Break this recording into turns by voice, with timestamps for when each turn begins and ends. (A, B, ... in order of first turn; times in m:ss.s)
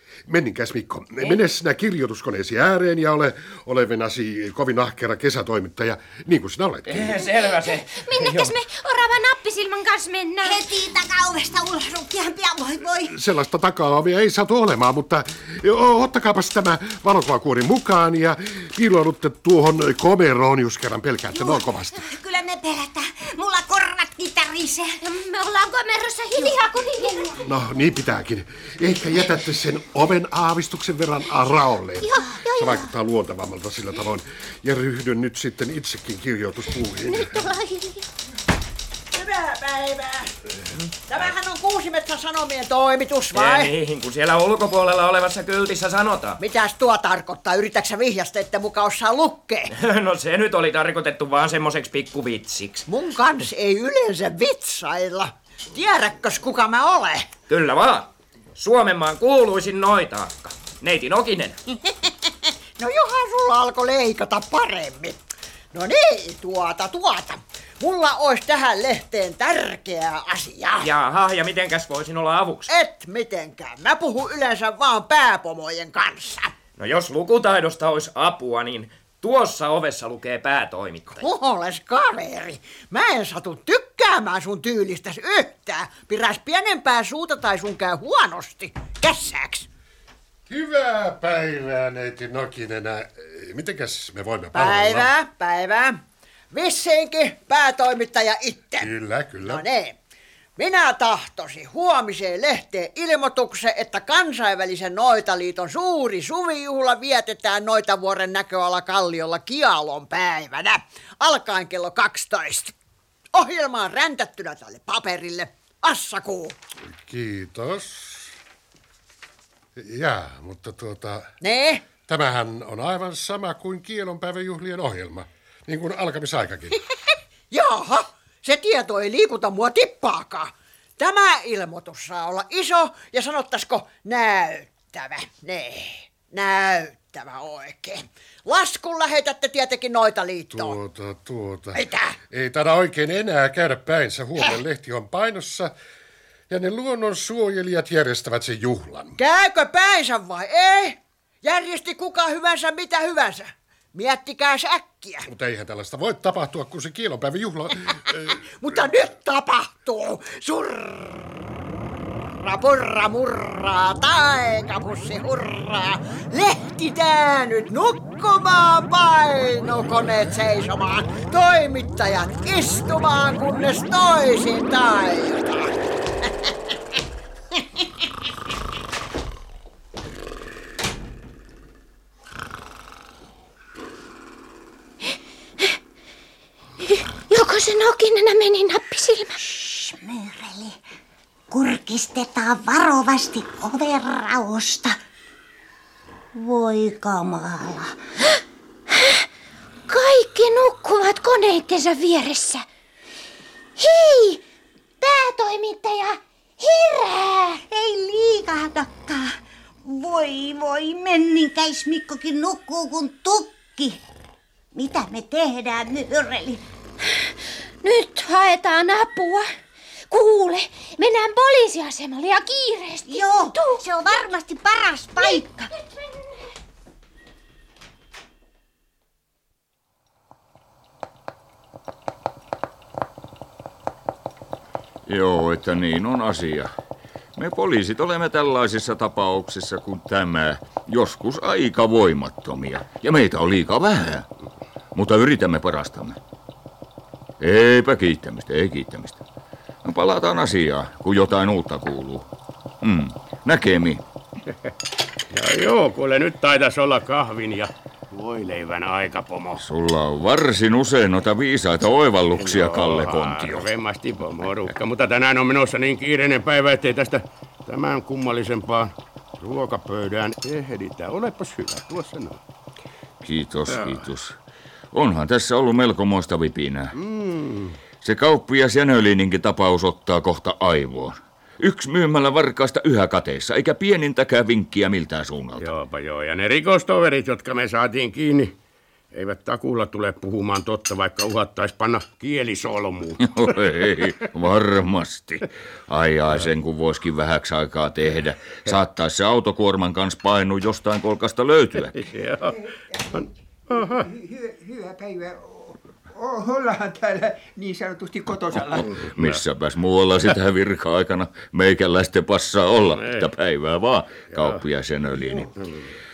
0:00.3-0:07.2 A
0:06.9-0:08.6 B
0:07.2-0:10.7 C
0:10.4-0:13.1 D
0:13.1-0:22.0 A
0:21.3-0:25.0 D
0:25.0-0:27.4 C
0:26.4-0:27.3 D
0:27.4-0:37.5 A
0:32.0-0:32.9 C
0:37.0-0:38.0 C
0:39.1-0:40.3 E
0:41.1-0:43.8 E
0:43.3-0:46.4 B
0:46.4-0:49.8 E
0:49.7-0:52.9 B
0:52.9-0:57.3 E
0:57.5-1:01.6 B
1:02.8-1:05.2 E
1:05.7-1:10.9 E
1:10.8-1:12.7 B
1:12.7-1:16.5 E
1:16.8-1:21.2 B
1:21.2-1:29.7 E
1:30.5-1:35.1 A
1:34.5-1:36.0 E
1:36.5-1:40.0 E
1:38.8-1:39.7 A
1:40.6-1:52.7 E
1:53.3-1:56.6 E
1:56.8-1:58.3 A
1:59.8-2:01.3 A
2:01.4-2:01.8 E
2:02.1-2:06.8 A
2:07.5-2:20.8 E
2:20.5-2:25.7 A
2:21.7-2:22.2 E
2:26.5-2:29.2 A
2:29.2-2:35.3 E
2:35.3-2:38.4 A
2:38.3-2:41.3 E
2:42.3-2:56.5 E
3:06.9-3:09.4 C
3:09.4-3:10.8 D
3:11.5-3:15.0 D
3:16.4-3:18.0 D
3:18.9-3:19.2 C
3:19.9-3:22.6 C
3:23.8-3:24.4 C
3:25.0-3:27.6 C
3:27.7-3:34.0 D
3:34.7-3:36.6 D
3:37.1-3:39.5 C
3:40.1-3:44.2 C
3:43.1-3:45.7 D
3:45.2-3:46.0 C
3:55.1-3:56.7 F
3:57.4-4:04.3 F
4:05.0-4:06.2 F
4:07.4-4:09.2 F
4:09.8-4:12.3 F
4:12.8-4:14.0 F
4:15.3-4:19.6 G
4:19.6-4:23.7 F
4:22.3-4:32.4 G
4:33.2-4:34.4 F
4:33.7-4:34.0 G
4:34.9-4:37.0 F
4:37.0-4:37.8 G
4:38.0-4:45.7 F
4:45.6-4:48.5 G
4:49.1-4:54.3 G
4:53.2-5:02.0 F
5:01.9-5:02.6 G
5:03.0-5:09.0 H
5:03.1-5:04.1 G
5:08.9-5:15.5 F
5:12.9-5:13.3 G
5:14.3-5:14.6 G
5:15.4-5:15.8 G